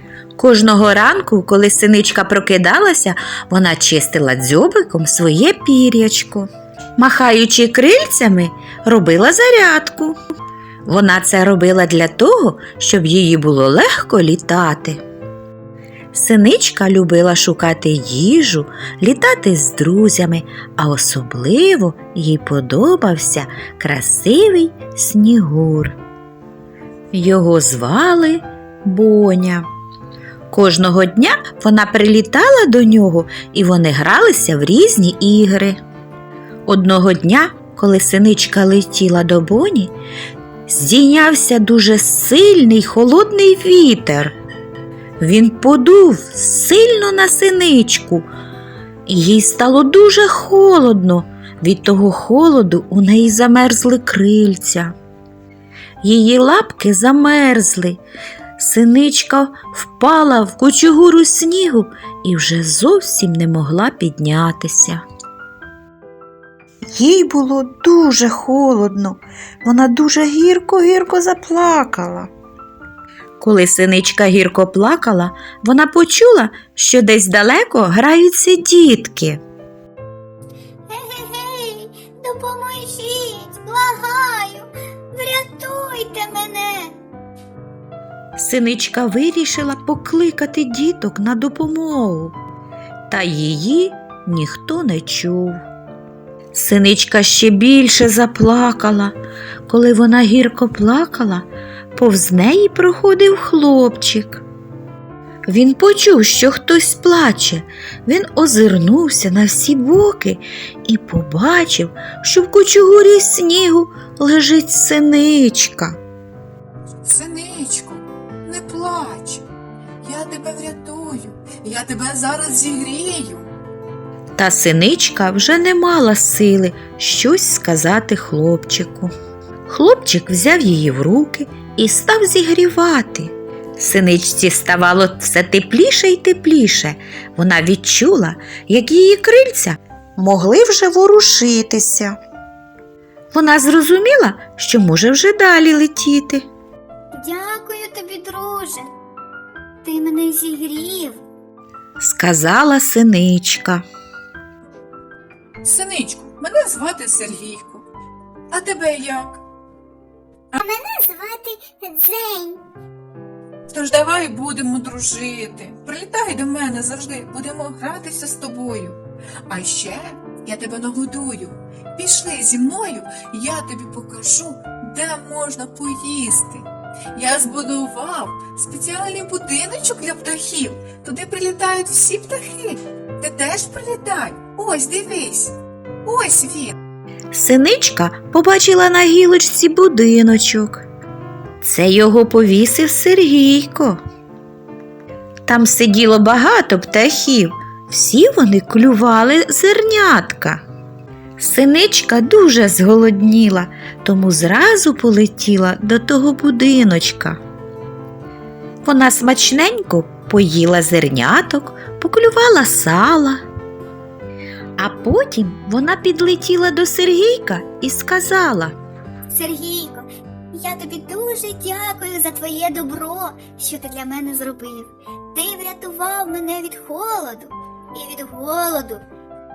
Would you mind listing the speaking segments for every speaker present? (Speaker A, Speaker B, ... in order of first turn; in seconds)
Speaker A: 0.4-10.2, 10.9-15.0, 16.1-26.0, 27.1-29.7, 30.5-35.8, 36.7-39.9, 40.7-44.3, 45.2-48.3, 49.1-54.9, 56.0-58.0, 58.6-65.0, 67.0-72.3, 73.4-79.4, 88.4-92.4, 93.1-95.6, 96.5-99.2, 99.7-104.4, 105.5-116.0, 124.4-129.1, 129.7-142.2, 143.3-146.5, 152.0-153.8, 187.3-190.8, 191.6-194.0, 195.5-200.7, 201.4-207.4, 208.8-213.4, 214.8-218.8
Speaker B: 80.9-86.9, 147.1-148.9, 149.8-151.2, 160.6-162.6, 219.3-229.0
Speaker C: 117.0-119.4, 120.0-123.5, 155.6-157.9, 158.5-159.4, 163.7-186.7